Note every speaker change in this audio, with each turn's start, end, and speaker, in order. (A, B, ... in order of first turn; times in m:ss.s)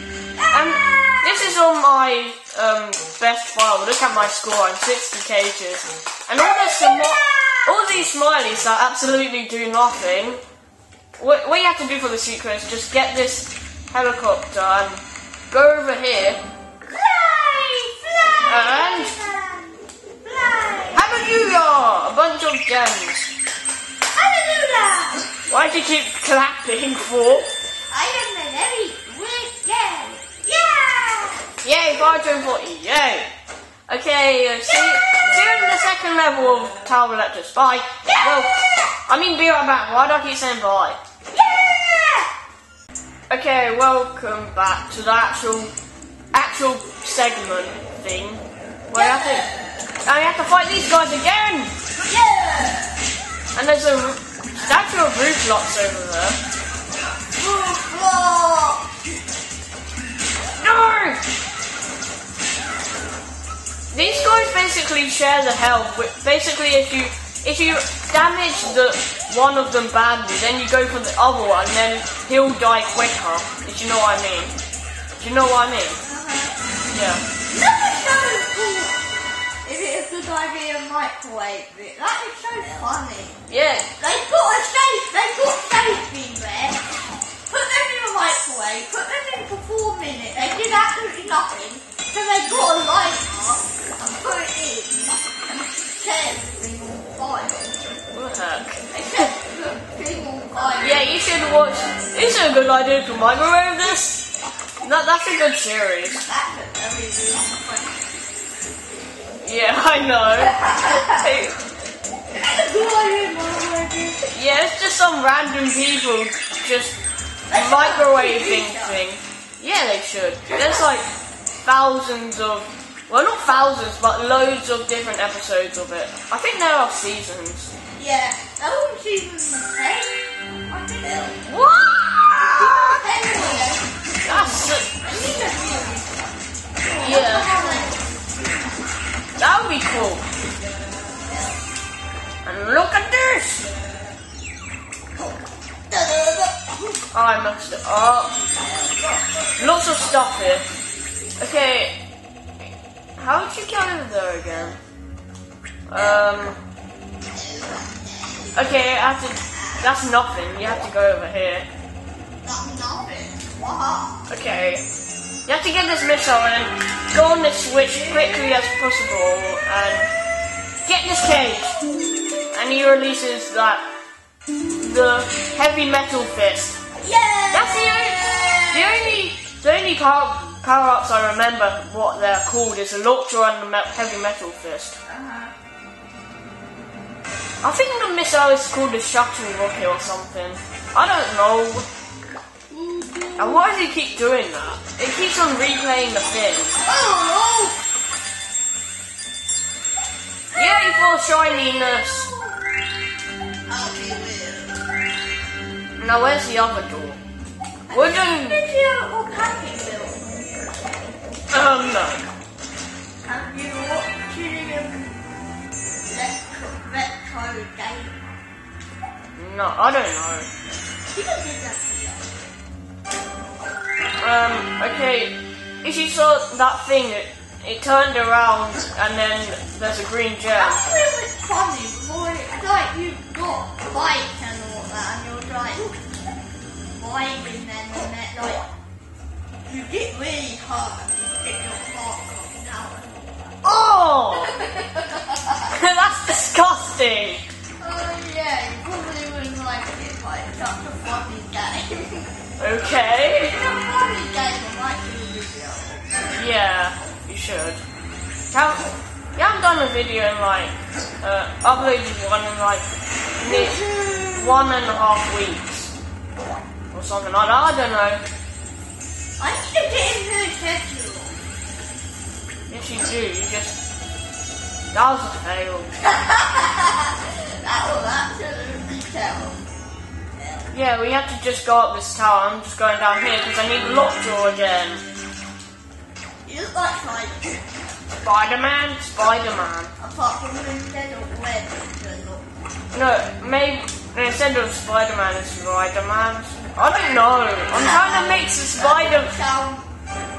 0:00.4-0:01.4 A
0:00.5-0:10.4 B
0:06.4-0:07.8 A
0:11.2-0:16.4 B
0:16.9-0:21.1 A
0:18.4-0:19.1 B
0:20.9-0:23.3 B
0:24.1-0:25.3 A
0:25.5-0:27.5 B
0:27.9-0:31.4 A
0:31.6-0:33.3 B
0:33.9-0:41.0 B
0:41.3-0:42.3 A
0:43.3-0:45.7 B
0:46.3-0:49.4 B
0:48.9-0:49.9 A
0:50.0-0:51.7 B
0:52.0-0:53.0 A
0:53.5-0:56.4 B
0:57.4-0:58.9 A
1:00.6-1:01.2 B
1:03.9-1:14.5 B
1:15.2-1:16.0 B
1:16.0-1:16.6 A
1:16.9-1:17.2 B
1:17.5-1:19.0 A
1:19.6-1:23.4 A
1:23.5-1:23.9 B
1:24.0-1:26.8 A
1:27.5-1:35.2 A
1:35.8-1:37.9 A
1:38.1-1:38.9 B
1:38.9-1:41.1 A
1:40.8-1:44.2 B
1:44.8-1:46.2 B
1:46.1-1:48.1 A
1:49.4-1:51.6 B
1:50.4-1:51.2 A
1:52.3-1:54.2 A
1:54.3-1:57.0 B
1:57.5-1:59.0 A
1:57.5-2:01.1 B
2:01.6-2:07.7 B
2:08.0-2:11.4 A
2:11.5-2:13.0 B
2:12.4-2:18.1 A
2:14.2-2:14.9 B
2:17.0-2:17.8 B
2:19.4-2:20.2 B
2:21.2-2:21.6 A
2:22.4-2:23.6 B
2:25.9-2:27.0 A
2:27.1-2:28.4 B
2:28.4-2:29.2 A
2:29.6-2:30.7 B
2:31.4-2:32.0 B
2:33.2-2:34.8 B
2:35.9-2:36.6 B
2:36.0-2:36.2 A
2:37.3-2:38.7 A
2:38.5-2:41.6 B
2:39.5-2:39.9 A
2:42.4-2:44.3 A
2:44.3-2:44.8 B
2:45.4-2:50.1 B
2:47.7-2:48.5 A
2:50.8-2:51.7 B
2:52.5-2:53.8 B
2:54.8-2:56.8 B
2:57.0-2:59.2 A
2:57.5-3:05.0 B
3:05.1-3:05.5 A
3:07.6-3:11.9 B
3:12.7-3:13.6 A
3:13.4-3:16.8 B
3:16.8-3:17.8 A
3:20.5-3:22.3 B
3:21.6-3:22.6 A
3:23.7-3:24.8 A
3:26.0-3:27.2 B
3:27.9-3:31.2 A
3:27.9-3:28.6 B
3:31.5-3:32.2 B
3:33.2-3:35.2 A
3:36.0-3:38.4 A
3:39.4-3:40.5 B
3:41.1-3:42.2 A
3:44.2-3:50.8 B
3:50.5-3:56.0 A
3:56.9-3:58.6 A
3:59.6-4:03.6 A
4:03.6-4:04.5 B
4:04.3-4:05.6 A
4:05.7-4:07.4 B
4:07.8-4:12.3 A
4:12.6-4:13.6 B
4:13.4-4:16.3 A
4:16.3-4:17.8 B
4:18.5-4:22.9 B
4:23.4-4:24.7 A
4:23.4-4:25.9 B
4:26.9-4:28.2 B
4:29.4-4:31.4 A
4:32.7-4:33.8 B
4:34.9-4:35.9 B
4:36.0-4:39.6 A
4:40.3-4:40.8 A
4:40.7-4:45.0 B
4:46.4-4:47.7 A
4:48.2-4:49.9 B
4:50.0-4:52.5 A
4:52.9-4:59.3 B
4:57.7-4:59.9 A